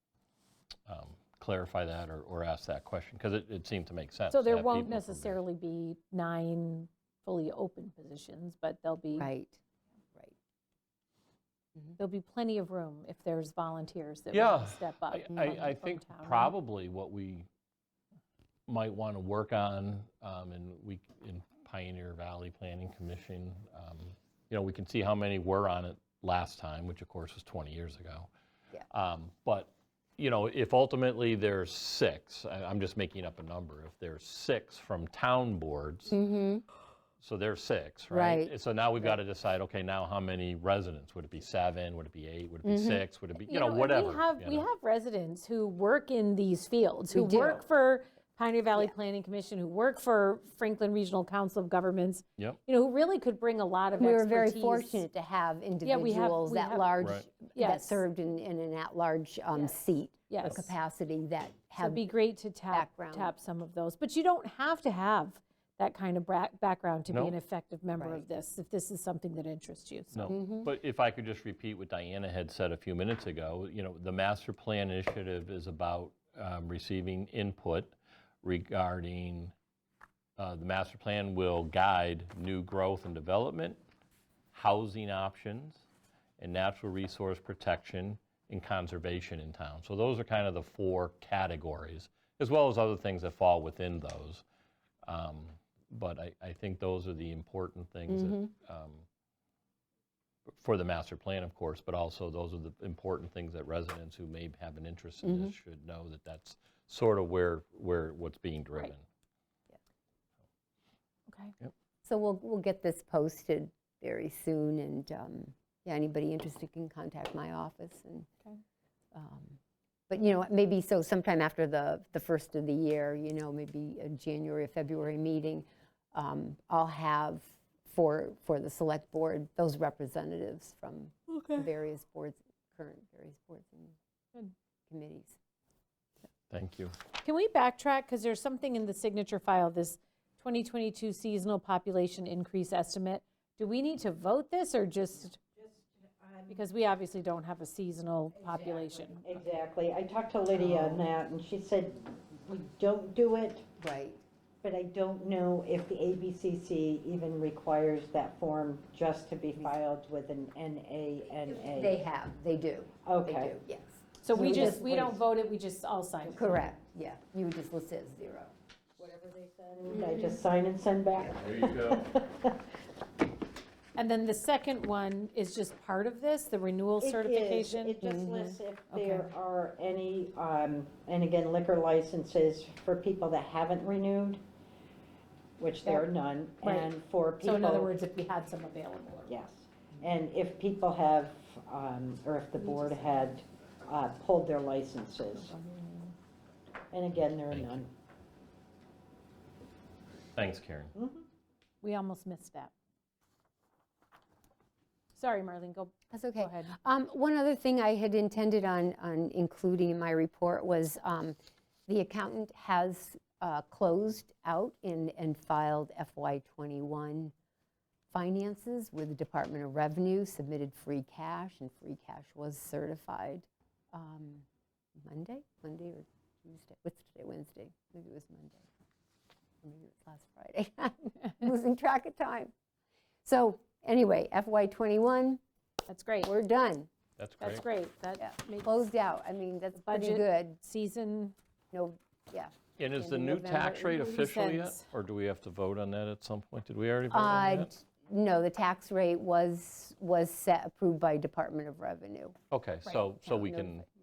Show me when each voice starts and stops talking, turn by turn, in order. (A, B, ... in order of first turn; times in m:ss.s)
0:00.9-0:05.4 A
0:04.3-0:09.3 B
0:09.2-0:09.6 C
0:12.0-0:16.5 B
0:14.3-0:17.5 A
0:18.7-0:28.3 A
0:28.9-0:36.2 A
0:36.1-0:36.6 C
0:37.2-0:44.7 A
0:38.1-0:38.5 C
0:42.6-0:43.0 C
0:43.4-0:55.0 B
0:47.1-0:47.6 C
0:54.0-1:02.1 C
0:55.8-0:58.0 B
0:57.0-0:57.3 A
1:00.3-1:00.7 B
1:01.8-1:10.3 B
1:02.7-1:03.3 C
1:07.1-1:07.4 A
1:08.0-1:08.3 C
1:10.1-1:19.5 A
1:10.3-1:10.7 C
1:20.4-1:23.8 A
1:24.5-1:25.8 A
1:26.4-1:34.4 A
1:35.0-1:39.0 A
1:38.1-1:38.5 C
1:40.5-1:49.0 A
1:45.2-1:45.5 C
1:51.3-1:51.5 B
1:52.0-1:58.3 C
1:59.1-1:59.6 C
2:00.1-2:14.0 C
2:14.9-2:15.4 C
2:16.5-2:17.0 A
2:17.2-2:25.4 B
2:25.6-2:26.6 D
2:26.5-2:29.5 B
2:28.5-2:33.7 D
2:30.6-2:31.0 C
2:33.8-2:34.2 C
2:34.6-2:42.0 D
2:41.5-2:45.2 C
2:43.0-2:43.6 D
2:44.2-2:46.6 B
2:44.5-2:44.9 D
2:46.3-2:46.5 D
2:46.3-2:48.5 C
2:49.0-2:52.7 D
2:54.0-2:59.3 B
2:57.0-3:04.4 D
2:58.0-2:58.4 C
3:05.6-3:07.9 D
3:06.6-3:09.3 B
3:09.3-3:15.5 D
3:12.6-3:13.4 B
3:15.4-3:16.1 B
3:16.9-3:17.9 D
3:17.5-3:17.8 A
3:20.4-3:20.9 A
3:21.0-3:21.3 D
3:21.8-3:22.7 B
3:25.2-3:26.7 B
3:26.1-3:37.3 C
3:38.1-3:44.5 C
3:45.0-3:48.7 C
3:49.6-3:52.5 C
3:53.2-3:55.4 C
3:55.9-3:56.3 B
3:56.2-3:56.9 C
3:57.2-3:57.6 A
3:57.4-3:58.9 B
3:58.2-4:00.6 C
3:59.8-4:01.4 B
4:01.7-4:03.8 C
4:02.8-4:07.7 A
4:03.4-4:04.8 B
4:07.1-4:13.8 C
4:12.5-4:13.8 A